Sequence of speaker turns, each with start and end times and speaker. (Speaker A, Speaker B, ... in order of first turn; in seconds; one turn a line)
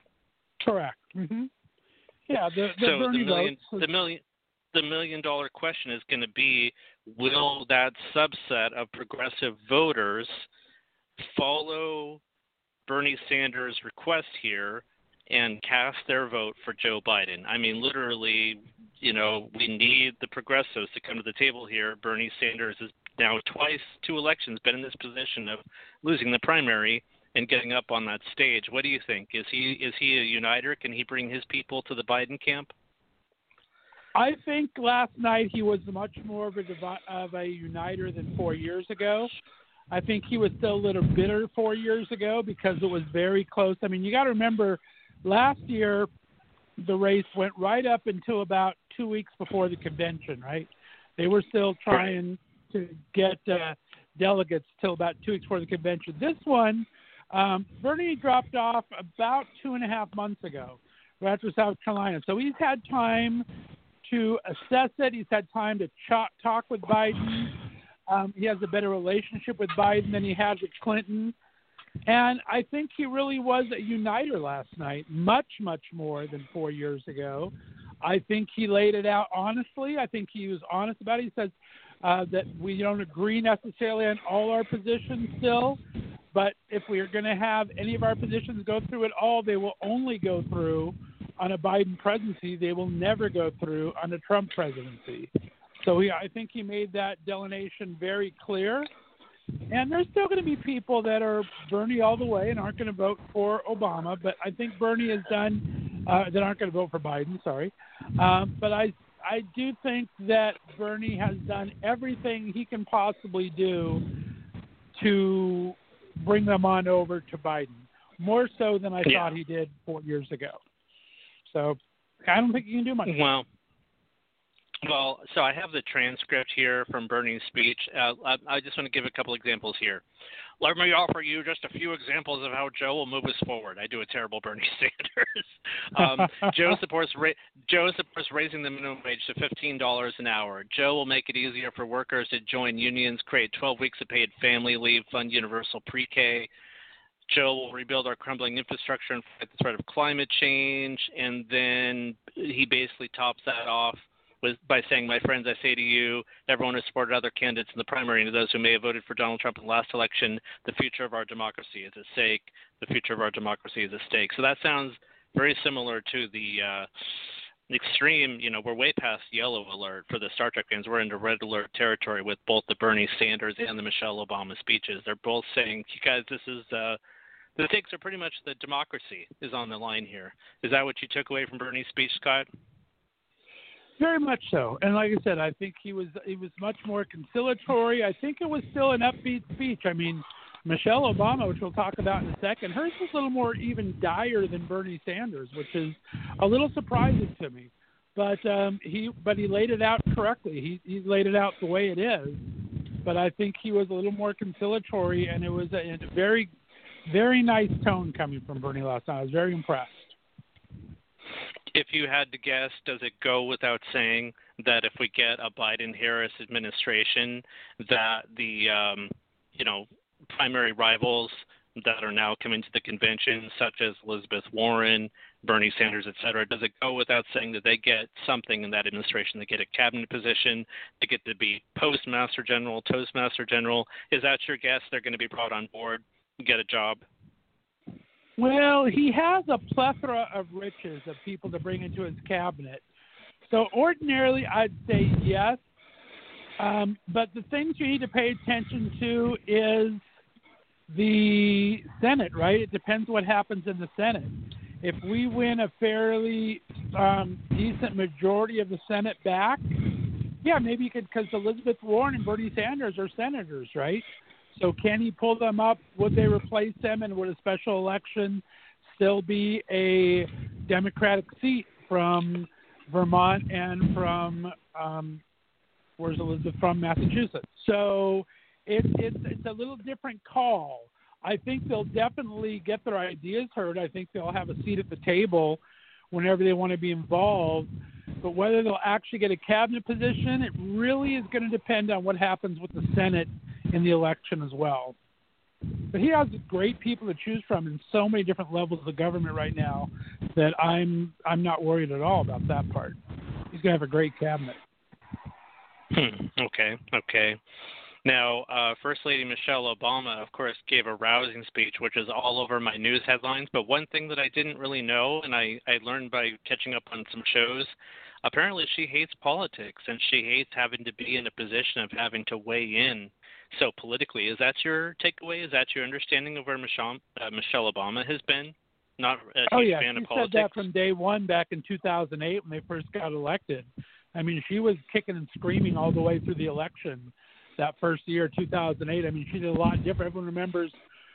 Speaker A: 0.6-1.5
Speaker A: 2.3-3.9
Speaker B: 2.8-4.2
Speaker B: 4.7-10.5
Speaker B: 11.2-12.2
Speaker B: 12.9-32.7
Speaker A: 34.1-39.3
Speaker A: 39.9-46.1
Speaker A: 46.8-63.5
Speaker A: 64.0-67.5
Speaker A: 68.1-71.3
Speaker A: 72.1-85.8
Speaker A: 86.3-98.9
Speaker A: 99.7-114.0
Speaker A: 115.0-120.6
Speaker B: 119.0-119.3
Speaker A: 121.5-123.2
Speaker B: 123.1-123.5
Speaker B: 124.8-130.0
Speaker B: 130.6-146.5
Speaker A: 136.0-136.3
Speaker B: 147.3-166.9
Speaker B: 167.7-177.0
Speaker B: 177.6-182.5
Speaker A: 184.0-202.4
Speaker A: 203.1-206.5
Speaker A: 207.1-210.1
Speaker B: 211.7-237.0
Speaker A: 238.4-242.8
Speaker A: 243.5-245.6
Speaker A: 246.6-250.0
Speaker A: 250.9-259.7
Speaker A: 260.4-275.2
Speaker A: 276.0-285.6
Speaker A: 286.1-295.0
Speaker A: 295.9-303.0
Speaker A: 303.5-304.6
Speaker B: 305.9-307.4
Speaker B: 308.1-317.7
Speaker B: 318.2-330.6
Speaker A: 329.5-340.8